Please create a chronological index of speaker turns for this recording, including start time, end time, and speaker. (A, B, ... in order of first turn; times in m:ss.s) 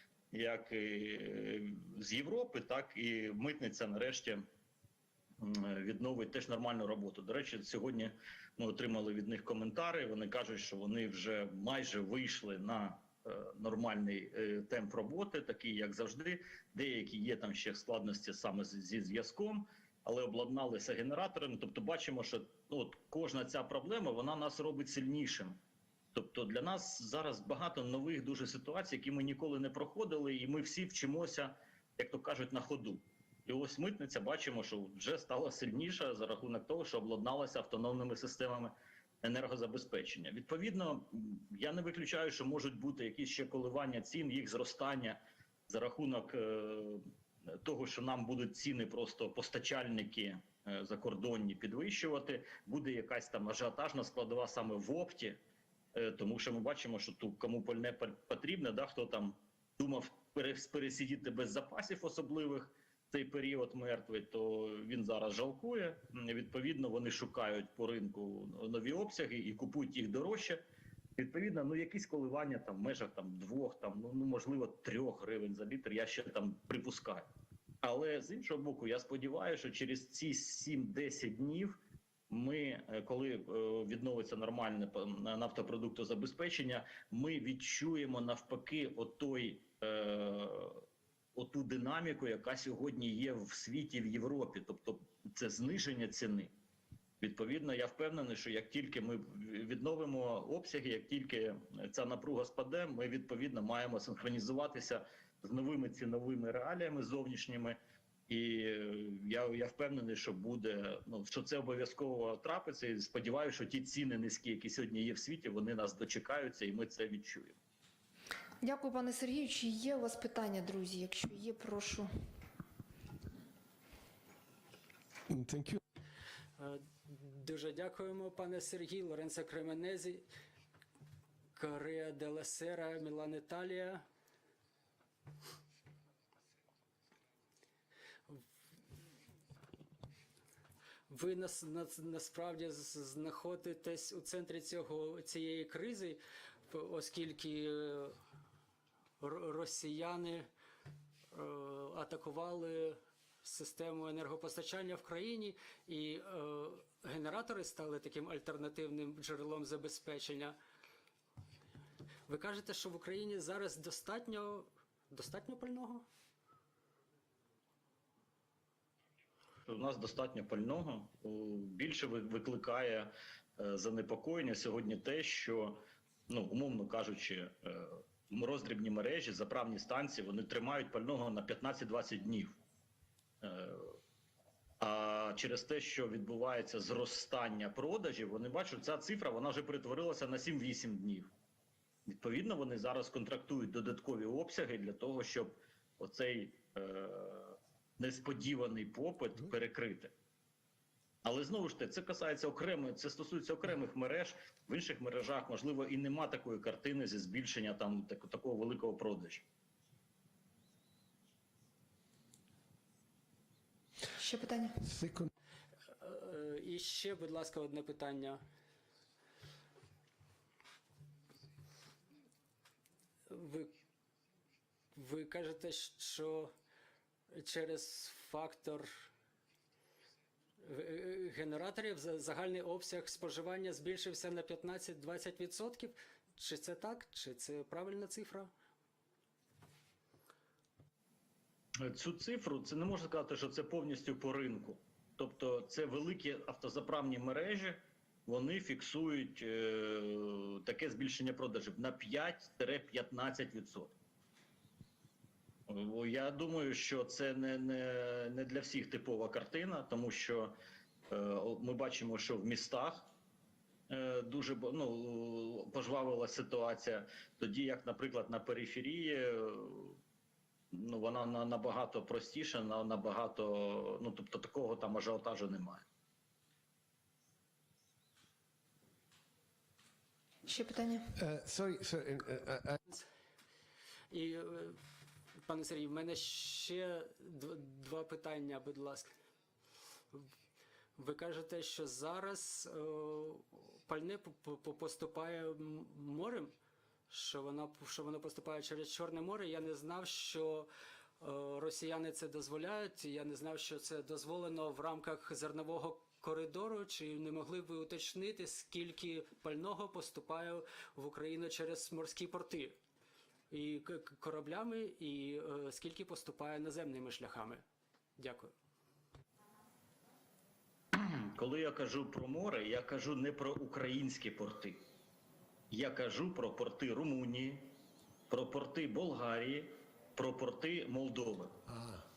0:00.3-0:04.4 A
0:05.4-0:25.6 A
0:26.1-0:55.4 A
0:55.9-1:10.6 A
1:11.2-1:17.3 A
1:17.8-1:30.8 A
1:31.4-1:36.5 A
1:37.2-1:57.6 A
1:58.6-2:02.1 B
2:05.3-2:05.8 C
2:06.6-2:10.3 D
2:11.6-2:14.0 D
2:21.1-2:28.2 D
2:29.2-2:30.5 D
2:31.3-2:40.6 D
2:42.3-2:46.0 D
2:49.6-3:02.6 A
3:03.4-3:04.0 A
3:04.8-3:11.3 A
3:12.1-3:20.1 A
3:21.2-3:29.4 A
3:34.2-3:34.9 B
3:34.9-3:35.3 C
3:36.0-3:38.4 D
3:43.3-3:43.7 D
3:45.0-3:46.5 D
3:47.3-3:49.0 D
3:50.6-3:58.5 D
4:01.8-4:14.0 A
4:15.7-4:20.5 A
4:21.1-4:23.1 A
4:23.9-4:30.0 A
4:30.7-4:35.8 A
4:40.5-4:41.1 B
4:41.2-4:42.8 C
4:44.1-4:44.8 D
4:45.4-4:49.1 D
4:51.0-4:56.5 D
4:57.1-5:00.7 D
5:01.2-5:12.8 D
5:13.5-5:17.6 D
5:18.2-5:18.5 D
5:20.9-5:24.8 A
5:25.7-5:27.7 A
5:28.3-5:31.6 A
5:31.7-5:32.0 C